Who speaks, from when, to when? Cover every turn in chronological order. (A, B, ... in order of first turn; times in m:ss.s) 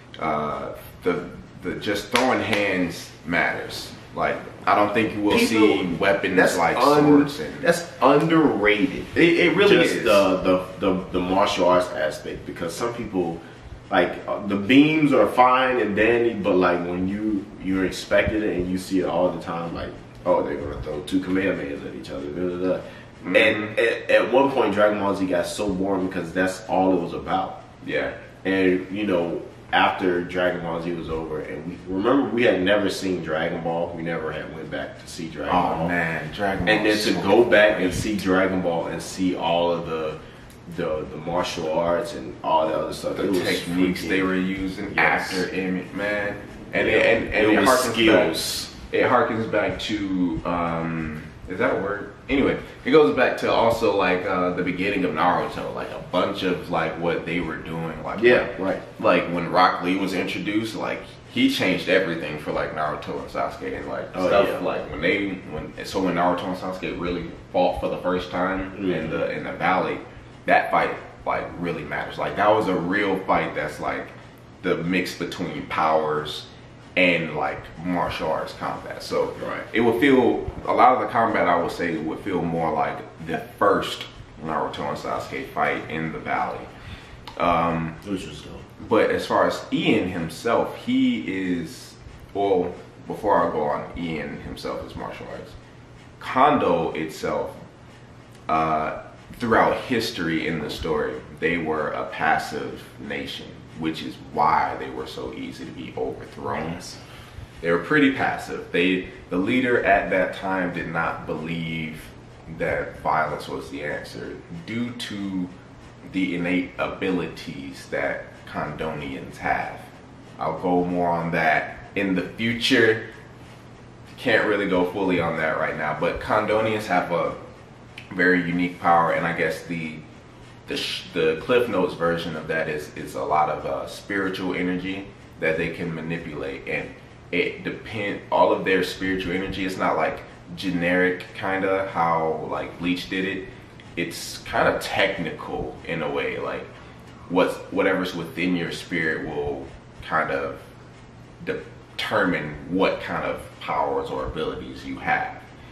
0:00.2-0:07.7 A
0:05.3-0:27.6 B
0:09.6-0:10.3 A
0:23.2-0:23.8 A
0:27.8-0:28.2 A
0:28.4-0:35.9 B
0:35.5-0:38.2 A
0:36.6-0:44.3 B
0:43.1-1:26.7 A
0:44.9-0:45.4 B
0:46.7-0:48.7 B
0:58.2-0:58.8 B
1:04.1-1:04.7 B
1:08.7-1:09.2 B
1:19.3-1:19.6 B
1:27.4-1:28.0 A
1:28.0-1:28.7 B
1:28.8-1:35.5 A
1:36.2-1:37.6 A
1:38.5-1:46.8 A
1:46.5-1:47.0 B
1:47.6-1:55.5 A
1:56.1-2:03.1 A
2:04.1-2:07.4 A
2:08.1-2:10.0 A
2:10.7-2:26.7 A
2:27.3-2:30.6 A
2:31.4-2:35.4 A